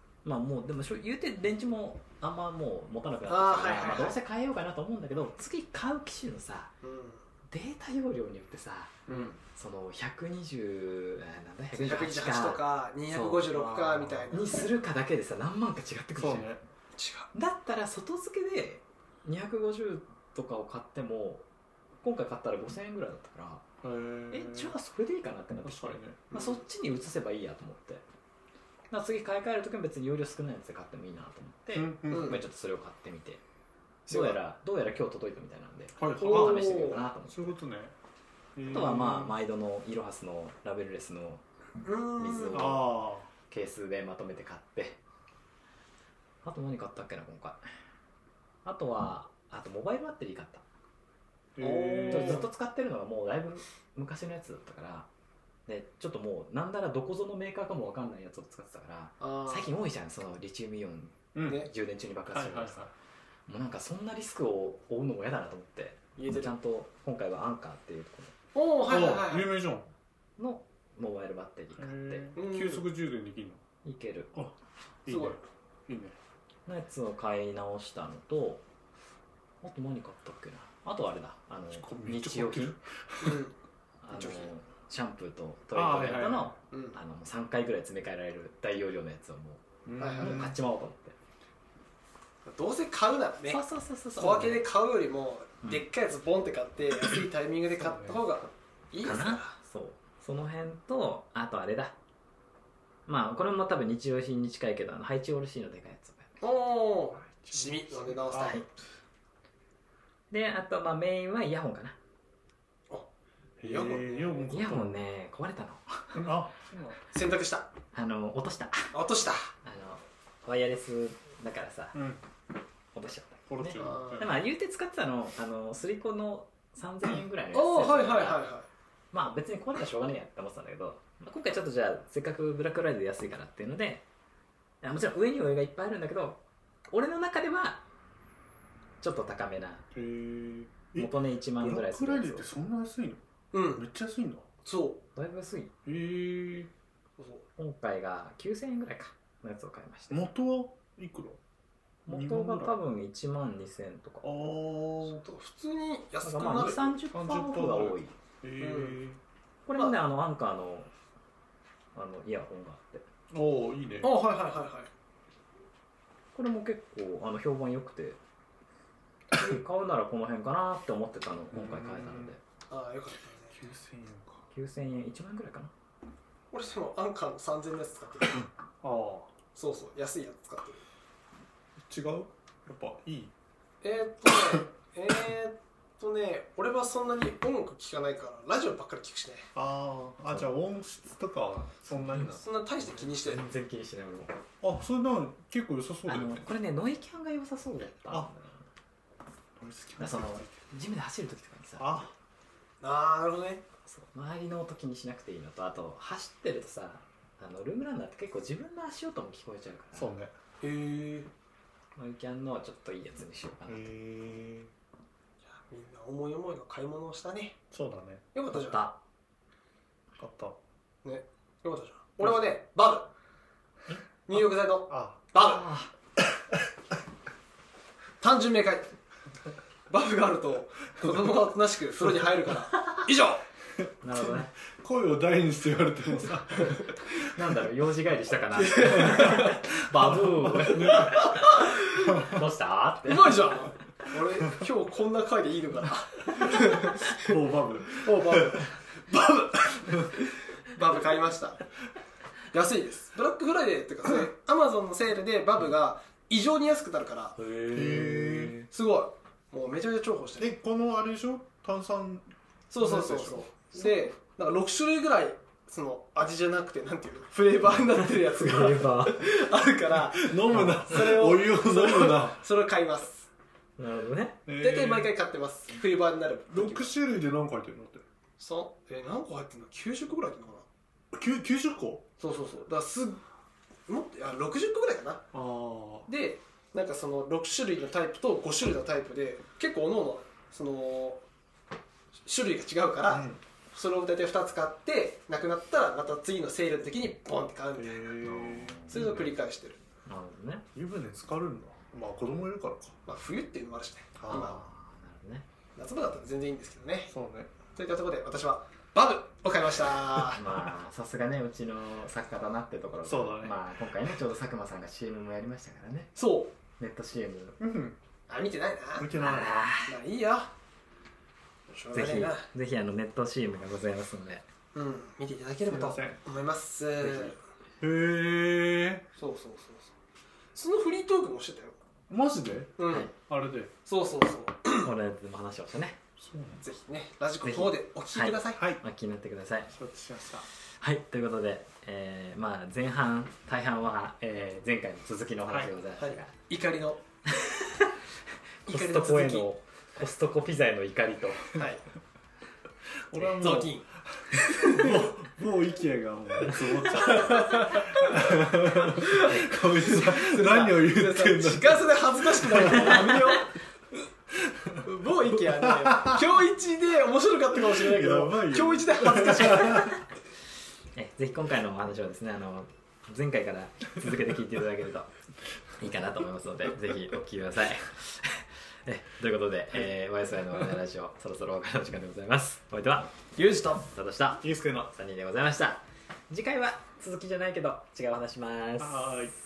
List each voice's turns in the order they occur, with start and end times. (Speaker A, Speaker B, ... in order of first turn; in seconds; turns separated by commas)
Speaker A: 0.2-6.7, Speaker B: 3.3-4.2, Speaker B: 6.8-7.2, Speaker A: 7.5-13.5, Speaker B: 9.1-9.4, Speaker B: 11.7-14.7, Speaker C: 13.5-14.3, Speaker A: 14.3-16.5, Speaker C: 16.2-16.6, Speaker B: 17.0-17.3, Speaker A: 17.3-21.4, Speaker A: 22.0-23.6, Speaker C: 23.8-24.7, Speaker A: 24.3-28.0, Speaker C: 25.6-26.3, Speaker B: 26.3-26.6, Speaker A: 28.9-33.4, Speaker C: 31.7-32.4, Speaker B: 32.1-32.4, Speaker B: 34.1-34.4, Speaker A: 34.1-37.6, Speaker C: 36.0-37.9, Speaker B: 36.2-37.0, Speaker C: 38.5-39.3, Speaker A: 38.7-41.4, Speaker B: 41.8-42.9, Speaker A: 42.2-45.0, Speaker C: 42.5-43.3, Speaker A: 46.4-47.6, Speaker A: 48.6-50.6, Speaker C: 51.5-52.5, Speaker B: 51.6-52.5, Speaker A: 52.1-55.1, Speaker A: 55.7-62.8, Speaker B: 59.2-59.7, Speaker C: 61.3-61.6, Speaker C: 62.3-62.9, Speaker A: 63.5-68.3, Speaker B: 66.2-66.5, Speaker B: 68.5-69.5, Speaker C: 68.8-69.9, Speaker A: 70.4-72.3, Speaker C: 71.8-73.6, Speaker B: 72.3-72.9, Speaker A: 73.8-74.3, Speaker C: 74.3-76.2, Speaker B: 75.1-75.4, Speaker A: 76.7-78.6, Speaker A: 79.6-82.8, Speaker C: 81.7-83.4, Speaker B: 83.2-83.5, Speaker A: 84.0-89.6, Speaker B: 84.1-84.5, Speaker C: 85.7-86.5, Speaker B: 86.7-87.0, Speaker C: 89.8-90.5, Speaker B: 90.0-90.5, Speaker A: 90.2-91.2, Speaker B: 92.4-93.6, Speaker A: 93.5-94.7, Speaker B: 94.2-99.5, Speaker C: 97.8-98.2, Speaker A: 99.0-101.9, Speaker A: 103.1-106.4, Speaker B: 106.4-108.7, Speaker C: 107.2-108.6, Speaker A: 110.3-112.0, Speaker C: 113.6-115.0, Speaker B: 113.6-114.5, Speaker A: 114.5-116.2, Speaker C: 116.1-117.0, Speaker B: 117.1-117.7, Speaker A: 117.9-118.9, Speaker B: 118.9-119.5, Speaker A: 119.6-122.0, Speaker C: 121.9-122.2, Speaker A: 122.9-128.4, Speaker C: 123.5-124.3, Speaker B: 123.8-124.2, Speaker B: 127.5-128.7, Speaker A: 129.1-134.0, Speaker A: 134.8-137.8, Speaker A: 139.0-139.9, Speaker C: 139.9-143.2, Speaker A: 140.9-142.5, Speaker B: 143.5-143.8, Speaker C: 143.7-144.4, Speaker B: 144.6-145.0, Speaker A: 145.2-145.7, Speaker C: 145.8-146.7, Speaker B: 147.2-147.4, Speaker A: 147.6-150.2, Speaker C: 150.1-151.4, Speaker A: 152.1-154.4, Speaker C: 152.1-152.7, Speaker C: 154.2-155.2, Speaker B: 155.0-156.9, Speaker A: 156.2-158.1, Speaker C: 157.1-159.2, Speaker B: 158.6-159.0, Speaker A: 159.7-160.9, Speaker A: 161.9-163.1, Speaker C: 163.3-164.2, Speaker B: 164.0-164.9, Speaker A: 166.3-168.2, Speaker A: 169.3-172.4, Speaker C: 171.5-172.4, Speaker B: 172.7-173.6, Speaker C: 173.5-174.4, Speaker A: 174.5-175.7, Speaker B: 176.5-178.4, Speaker C: 178.8-179.3, Speaker B: 179.5-180.8, Speaker C: 181.8-183.3, Speaker B: 183.8-189.5, Speaker C: 189.5-192.4, Speaker A: 192.1-192.4, Speaker B: 192.4-193.4, Speaker A: 192.9-194.4, Speaker C: 194.6-196.5, Speaker A: 196.1-198.6, Speaker C: 199.6-200.5, Speaker A: 200.0-201.9, Speaker C: 201.8-202.1, Speaker B: 202.8-203.6, Speaker A: 203.9-210.1, Speaker C: 209.9-210.3, Speaker B: 210.6-211.3, Speaker A: 211.9-213.9, Speaker C: 213.7-214.7, Speaker B: 215.5-217.6, Speaker C: 217.7-218.2, Speaker B: 218.3-218.8, Speaker A: 218.5-219.0, Speaker C: 220.2-220.6, Speaker B: 221.0-223.1, Speaker B: 224.3-225.7, Speaker C: 224.9-225.2, Speaker A: 225.3-225.9, Speaker B: 228.2-228.9, Speaker B: 229.9-233.4, Speaker A: 234.0-234.5, Speaker C: 234.2-236.9, Speaker A: 237.2-243.5, Speaker B: 238.6-239.6, Speaker C: 239.9-240.7, Speaker B: 240.8-242.3, Speaker B: 243.0-247.3, Speaker C: 247.1-248.5, Speaker B: 247.9-251.6, Speaker B: 252.5-257.4, Speaker A: 257.4-258.7, Speaker C: 257.7-258.6, Speaker B: 258.6-260.5, Speaker C: 260.4-263.5, Speaker B: 262.7-273.3, Speaker A: 268.0-269.2, Speaker C: 270.1-272.4, Speaker A: 270.5-270.8, Speaker A: 273.8-274.4, Speaker C: 274.5-275.1, Speaker B: 274.5-276.9, Speaker C: 276.5-278.0, Speaker B: 278.4-280.6, Speaker C: 281.1-282.1, Speaker B: 282.2-283.2, Speaker B: 283.9-285.3, Speaker C: 285.3-286.1, Speaker B: 286.1-291.2, Speaker B: 292.2-299.8, Speaker C: 293.1-293.4, Speaker C: 297.8-299.3, Speaker A: 298.4-298.9, Speaker A: 300.1-300.6, Speaker C: 300.7-303.0, Speaker B: 303.1-304.6, Speaker C: 304.2-304.6, Speaker A: 304.3-305.4, Speaker B: 305.8-307.1, Speaker C: 307.1-307.5, Speaker B: 307.7-310.4, Speaker A: 310.3-316.1, Speaker C: 313.0-313.6, Speaker B: 316.1-316.5, Speaker A: 316.8-317.6, Speaker C: 317.6-318.0, Speaker B: 318.3-319.1, Speaker C: 319.0-319.5, Speaker A: 319.1-319.9, Speaker B: 319.8-320.5, Speaker B: 321.7-322.5, Speaker A: 321.9-324.4, Speaker B: 324.7-327.4, Speaker C: 325.7-326.2, Speaker A: 327.0-327.3, Speaker C: 327.8-329.1, Speaker B: 329.2-329.9, Speaker B: 330.5-331.8, Speaker C: 332.1-333.7, Speaker B: 332.8-333.1, Speaker B: 333.8-334.9, Speaker A: 334.8-336.0, Speaker C: 336.2-336.6, Speaker B: 336.6-338.6, Speaker A: 337.4-339.7, Speaker C: 339.7-340.5, Speaker A: 340.8-346.3, Speaker B: 346.0-347.0, Speaker A: 347.3-348.0, Speaker A: 348.6-351.6, Speaker B: 348.6-349.5, Speaker B: 351.5-351.8, Speaker C: 353.1-353.8, Speaker B: 353.4-355.0, Speaker C: 354.7-363.3, Speaker B: 356.9-363.6, Speaker C: 364.4-364.8, Speaker B: 364.8-369.9, Speaker C: 365.5-366.2, Speaker C: 367.6-369.9, Speaker A: 369.7-370.0, Speaker A: 370.9-375.1, Speaker A: 375.8-383.1, Speaker B: 383.3-383.9, Speaker A: 383.9-389.1, Speaker C: 384.4-384.9, Speaker C: 388.8-389.3